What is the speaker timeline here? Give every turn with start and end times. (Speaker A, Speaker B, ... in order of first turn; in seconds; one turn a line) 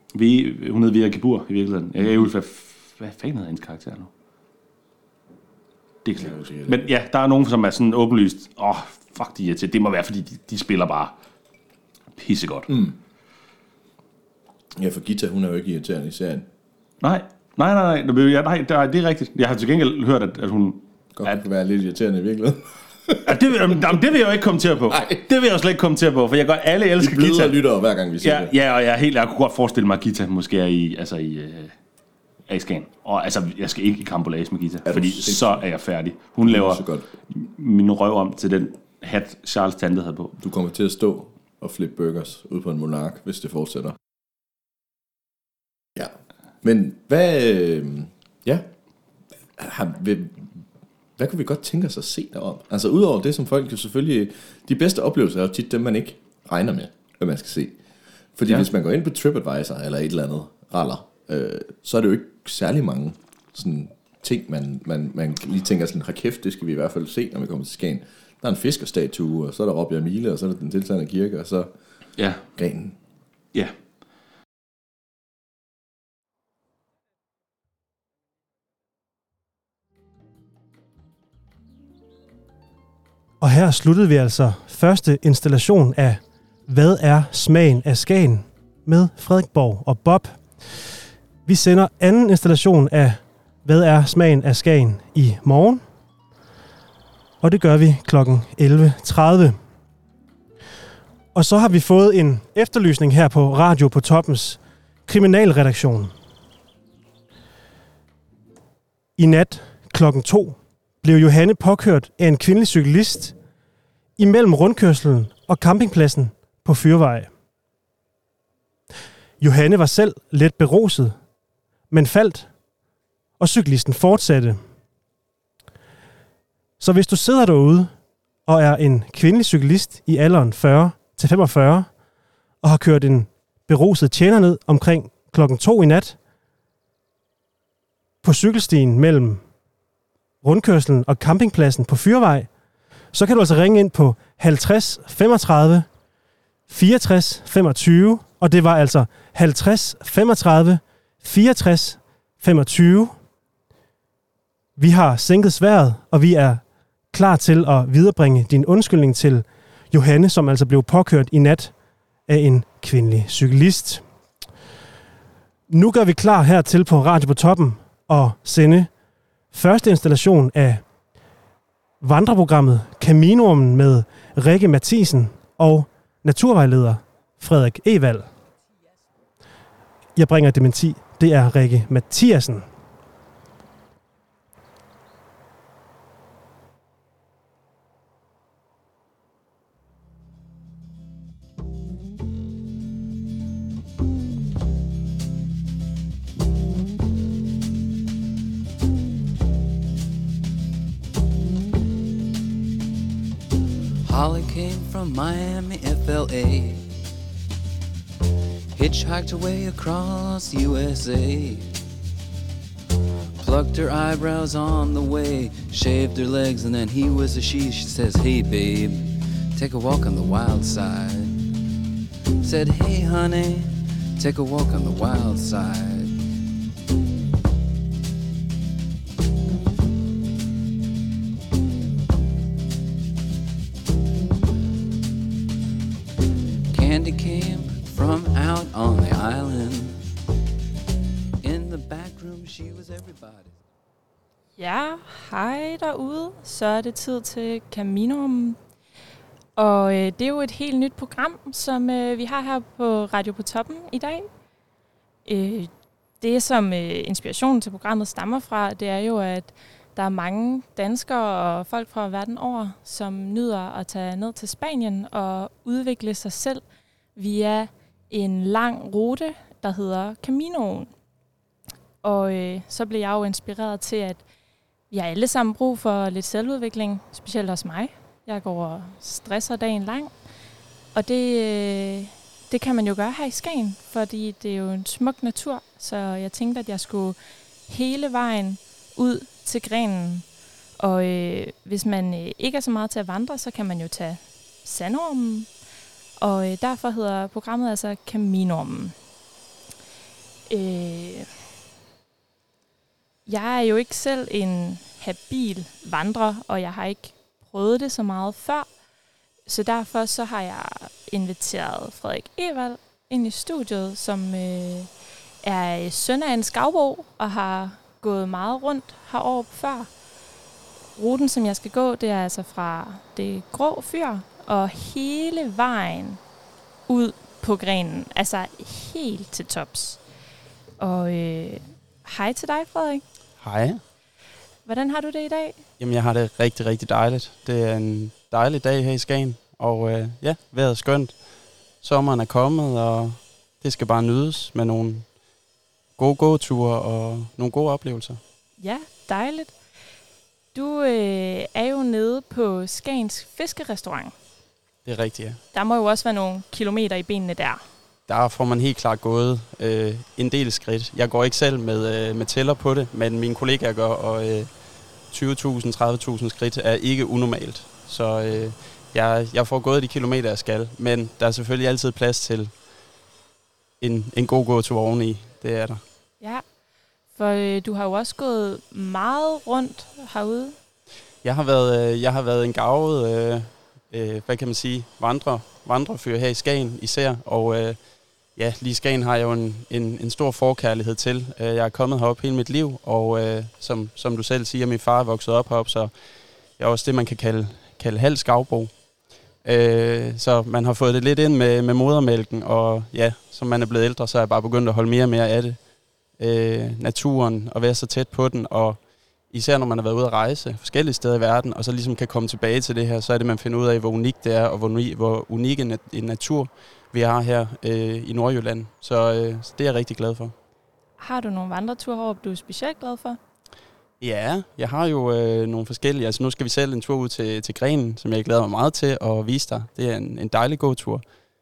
Speaker A: 0.1-4.1
Speaker B: 2.0-2.3
Speaker A: 6.0-11.1
Speaker B: 6.2-6.9
Speaker A: 12.2-12.7
Speaker B: 12.7-12.9
Speaker B: 14.8-16.5
Speaker A: 17.0-21.4
Speaker B: 21.1-23.9
Speaker A: 23.3-27.6
Speaker B: 24.9-25.2
Speaker B: 27.0-28.5
Speaker A: 28.2-31.7
Speaker A: 32.5-40.4
Speaker B: 34.9-35.7
Speaker B: 36.4-37.1
Speaker B: 40.4-44.0
Speaker B: 46.0-48.7
Speaker B: 49.6-50.6
Speaker B: 51.2-57.8
Speaker B: 58.4-71.7
Speaker A: 72.2-72.4
Speaker B: 72.5-73.0
Speaker C: 83.4-90.9
Speaker C: 91.5-95.8
Speaker C: 97.4-99.6
Speaker C: 101.3-106.1
Speaker C: 109.2-113.3
Speaker C: 114.2-117.3
Speaker C: 119.4-121.2
Speaker C: 121.9-122.5
Speaker C: 123.4-124.6
Speaker C: 126.8-127.9
Speaker C: 128.5-131.9
Speaker C: 132.6-136.2
Speaker C: 138.2-139.4
Speaker C: 140.4-142.5
Speaker C: 143.1-145.9
Speaker C: 146.7-153.2
Speaker C: 154.8-161.7
Speaker C: 162.3-164.0
Speaker C: 165.7-168.9
Speaker C: 169.5-170.8
Speaker C: 172.0-178.3
Speaker C: 180.2-182.7
Speaker D: 204.1-206.9
Speaker D: 208.7-211.7
Speaker D: 213.4-221.3
Speaker D: 222.4-226.2
Speaker D: 236.7-240.0
Speaker D: 241.4-243.6
Speaker E: 244.6-248.6
Speaker E: 249.6-254.3
Speaker E: 255.2-255.7
Speaker E: 256.2-266.6
Speaker E: 267.2-270.9
Speaker E: 272.0-274.2
Speaker E: 274.9-280.1
Speaker E: 280.9-290.3
Speaker E: 290.8-295.5
Speaker E: 296.2-298.9
Speaker E: 300.5-301.3
Speaker E: 303.3-308.7
Speaker E: 309.5-319.9
Speaker E: 321.0-326.2
Speaker E: 326.9-330.0
Speaker E: 330.8-333.0
Speaker F: 333.4-333.8
Speaker E: 334.7-335.6
Speaker F: 335.8-345.4
Speaker F: 346.0-348.2
Speaker E: 348.6-349.6
Speaker E: 350.5-354.1
Speaker F: 354.9-355.4
Speaker E: 355.5-357.6
Speaker F: 358.1-372.8
Speaker F: 373.8-375.8
Speaker E: 377.1-380.6
Speaker F: 381.2-420.3
Speaker E: 421.0-423.2
Speaker F: 424.0-431.1